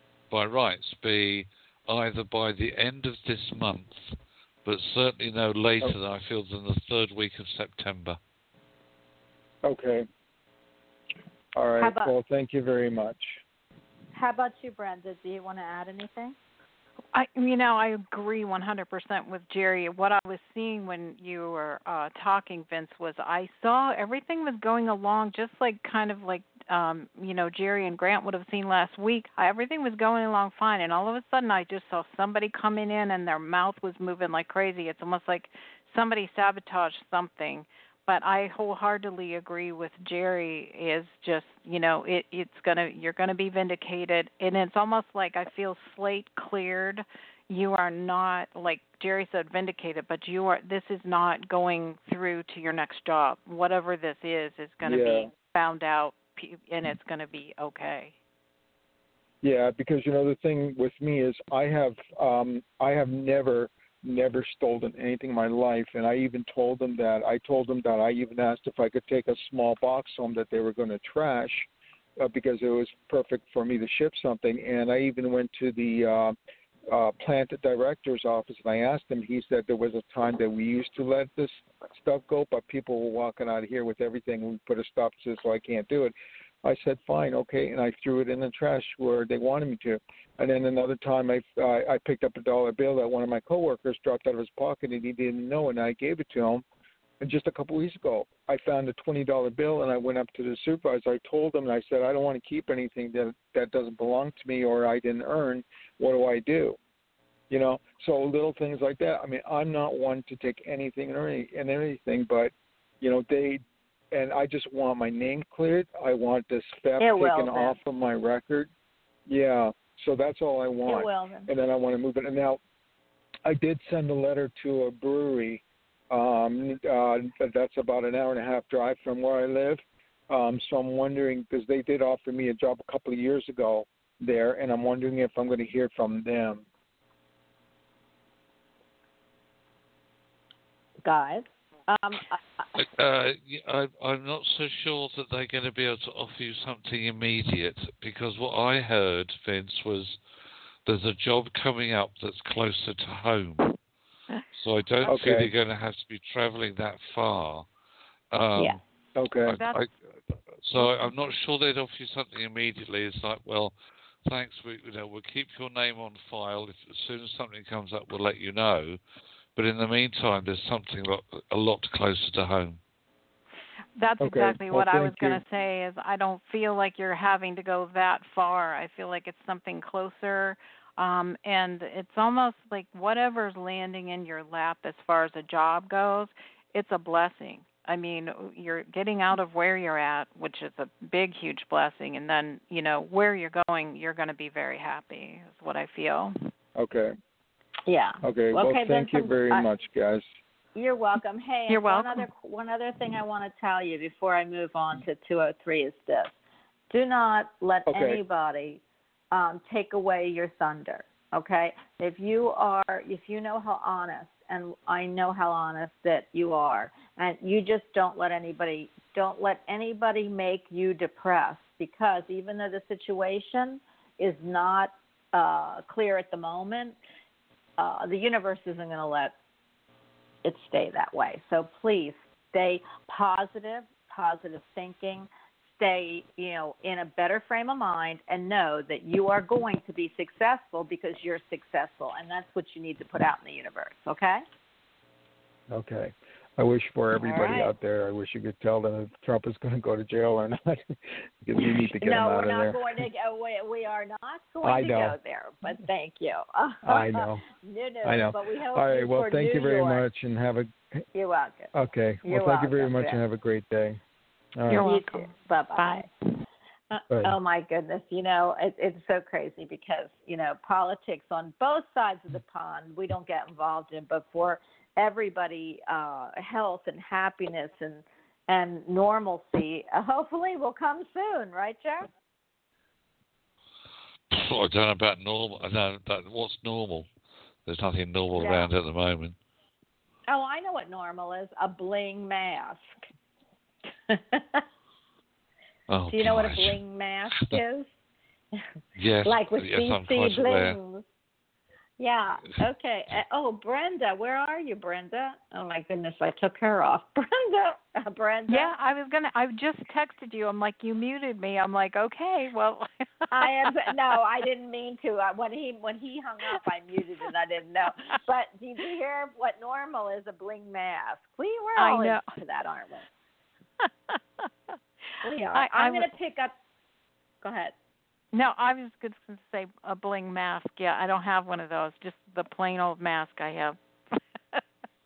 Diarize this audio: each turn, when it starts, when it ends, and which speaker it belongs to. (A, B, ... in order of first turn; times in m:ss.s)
0:00.3-0:08.2 A
0:09.6-0:10.1 B
0:11.6-0:13.4 B
0:11.8-0:12.1 C
0:14.1-0:16.4 C
0:17.1-0:58.1 D
0:54.8-0:55.3 B
0:59.4-1:11.7 B
1:12.2-1:16.4 B
1:16.9-1:36.6 B
1:37.2-1:46.8 B
1:47.5-1:53.6 B
1:54.1-1:58.7 B
1:57.0-1:57.8 C
1:59.3-2:02.6 B
2:00.8-2:01.5 C
2:03.4-2:16.6 B
2:21.0-2:22.7 C
2:22.8-2:30.2 A
2:30.8-2:33.7 A
2:34.6-2:37.7 A
2:35.0-2:35.5 B
2:38.3-2:38.8 A
2:39.2-2:39.6 B
2:39.4-2:39.9 A
2:40.6-2:43.7 A
2:44.2-2:49.0 A
2:49.6-2:52.8 A
2:54.0-3:16.3 D
2:54.2-2:55.4 B
3:16.8-3:17.1 B
3:17.9-3:19.7 C
3:18.2-3:20.2 B
3:20.7-3:26.3 C
3:21.7-3:22.2 D
3:26.9-3:28.8 C
3:27.9-3:28.2 B
3:29.3-3:47.0 C
3:47.8-3:49.3 C
3:50.4-4:04.4 C
4:05.7-4:12.9 B
4:07.2-4:07.7 C
4:12.0-4:20.0 C
4:14.6-4:15.2 B
4:16.8-4:17.4 B
4:18.0-4:20.7 B
4:21.1-4:21.7 C
4:21.7-4:24.0 B
4:22.2-4:23.2 C
4:24.6-4:24.9 B
4:24.7-4:26.1 D
4:24.8-4:26.0 C
4:26.9-4:42.1 C
4:44.3-4:47.1 A
4:47.6-4:49.4 A
4:48.3-4:48.7 C
4:50.3-4:52.9 C
4:54.1-4:54.6 C
4:55.9-4:56.8 A
4:56.1-4:57.9 C
4:57.3-4:57.6 A
4:59.0-5:00.8 A
4:59.2-5:01.0 C
5:02.0-5:08.7 C
5:08.5-5:13.6 D
5:13.3-5:23.1 C
5:21.8-5:22.2 D
5:25.2-5:26.5 C
5:25.5-5:26.1 D
5:27.4-5:27.7 C
5:28.3-5:33.8 D